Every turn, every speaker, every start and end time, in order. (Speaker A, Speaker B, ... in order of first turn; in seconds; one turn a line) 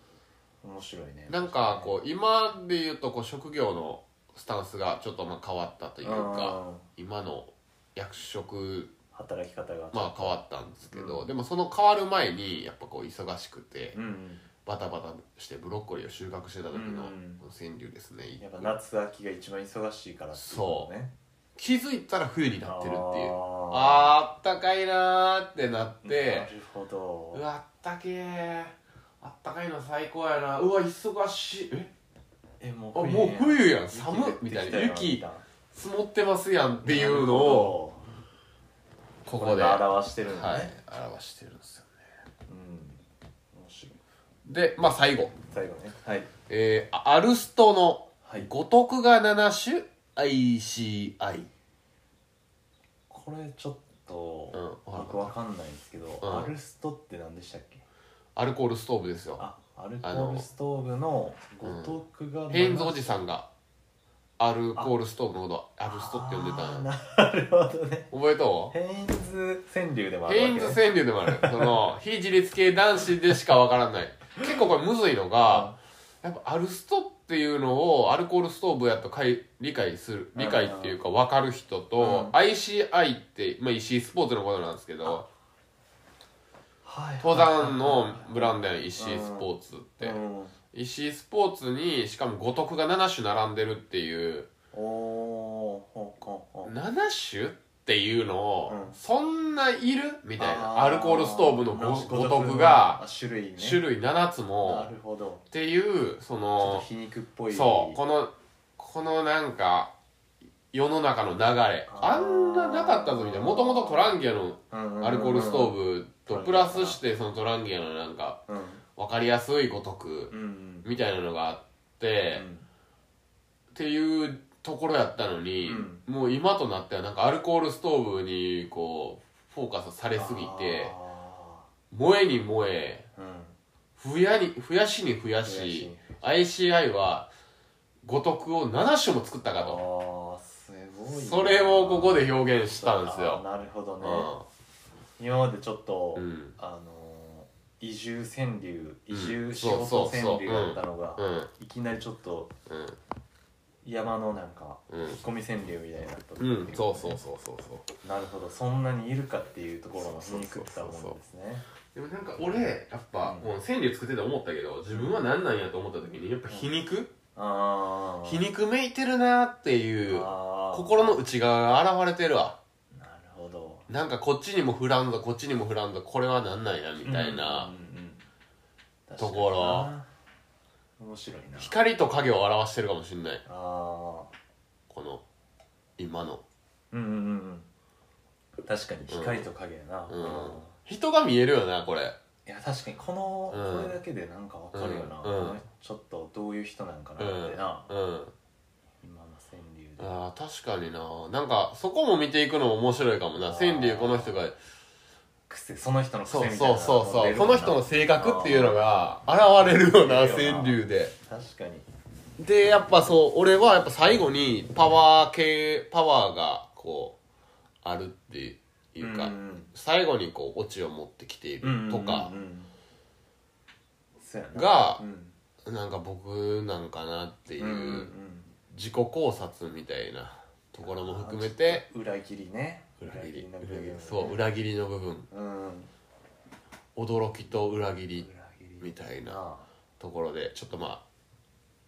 Speaker A: 0.6-1.9
Speaker B: 1.3-8.9
Speaker A: 6.0-6.8
Speaker A: 9.1-10.4
Speaker B: 9.9-14.0
Speaker A: 10.9-11.3
Speaker A: 13.9-14.4
Speaker B: 14.6-18.7
Speaker A: 16.7-17.4
Speaker A: 18.4-21.1
Speaker B: 20.3-20.9
Speaker B: 21.6-26.5
Speaker A: 22.6-24.1
Speaker A: 26.0-27.4
Speaker B: 27.3-31.9
Speaker A: 32.6-35.4
Speaker B: 32.9-37.8
Speaker A: 36.8-38.0
Speaker B: 39.2-42.0
Speaker A: 39.4-40.7
Speaker A: 42.5-44.0
Speaker B: 44.4-45.4
Speaker A: 45.5-46.3
Speaker B: 46.5-51.5
Speaker A: 48.2-48.5
Speaker A: 53.1-57.8
Speaker B: 54.5-55.3
Speaker B: 56.2-56.5
Speaker B: 58.4-59.5
Speaker A: 59.4-63.1
Speaker B: 60.0-60.5
Speaker B: 61.6-62.0
Speaker B: 62.5-63.5
Speaker B: 64.4-66.9
Speaker A: 65.9-68.1
Speaker B: 68.1-68.7
Speaker A: 68.7-71.8
Speaker B: 70.2-85.3
Speaker A: 75.4-75.8
Speaker A: 80.3-81.0
Speaker A: 82.0-82.3
Speaker A: 86.8-89.5
Speaker B: 87.2-90.2
Speaker A: 90.0-90.5
Speaker B: 90.7-94.5
Speaker A: 94.7-96.7
Speaker B: 96.6-103.0
Speaker A: 98.7-99.0
Speaker A: 100.4-103.8
Speaker B: 103.6-104.9
Speaker A: 104.6-105.4
Speaker B: 105.5-106.8
Speaker A: 106.6-108.0
Speaker B: 107.5-109.9
Speaker B: 110.7-118.4
Speaker A: 111.9-114.1
Speaker A: 114.7-117.0
Speaker A: 118.5-118.8
Speaker B: 119.0-122.4
Speaker A: 120.3-120.9
Speaker A: 122.3-122.7
Speaker B: 123.7-130.9
Speaker A: 125.6-126.0
Speaker A: 130.2-131.7
Speaker B: 131.9-133.1
Speaker A: 133.2-133.6
Speaker B: 134.0-137.3
Speaker A: 135.4-136.2
Speaker B: 138.0-139.8
Speaker A: 139.5-144.3
Speaker B: 141.1-143.4
Speaker B: 144.0-144.5
Speaker A: 145.2-152.5
Speaker B: 146.1-146.6
Speaker B: 149.1-151.5
Speaker B: 152.7-153.0
Speaker A: 153.8-157.2
Speaker B: 154.9-155.2
Speaker B: 156.4-157.9
Speaker A: 158.0-161.6
Speaker B: 159.9-161.2
Speaker B: 161.9-167.1
Speaker A: 163.2-163.5
Speaker A: 164.9-165.2
Speaker A: 167.3-168.4
Speaker B: 168.2-172.6
Speaker A: 170.0-171.2
Speaker A: 172.9-173.9
Speaker B: 173.9-177.7
Speaker A: 177.0-178.2
Speaker A: 179.1-180.1
Speaker B: 179.2-179.9
Speaker A: 181.0-181.7
Speaker B: 181.6-183.4
Speaker A: 183.4-184.3
Speaker B: 184.9-185.2
Speaker B: 186.0-186.4
Speaker A: 186.9-187.7
Speaker A: 188.6-190.7
Speaker B: 189.1-189.4
Speaker B: 190.1-192.2
Speaker A: 192.4-197.9
Speaker B: 193.5-194.0
Speaker B: 194.7-195.6
Speaker B: 197.2-198.3
Speaker A: 199.0-200.1
Speaker B: 200.0-204.6
Speaker A: 203.4-204.5
Speaker A: 205.5-208.9
Speaker B: 206.3-211.1
Speaker A: 209.9-211.9
Speaker B: 212.4-217.2
Speaker B: 217.8-222.3
Speaker A: 219.0-219.7
Speaker A: 221.6-222.7
Speaker A: 224.2-225.3
Speaker B: 224.5-225.0
Speaker B: 225.6-228.1
Speaker A: 227.6-228.5
Speaker B: 228.7-231.9
Speaker A: 230.8-234.4
Speaker B: 233.0-235.3
Speaker A: 235.3-235.9
Speaker B: 236.9-238.3
Speaker A: 238.2-239.7
Speaker B: 238.8-239.4
Speaker B: 240.0-241.0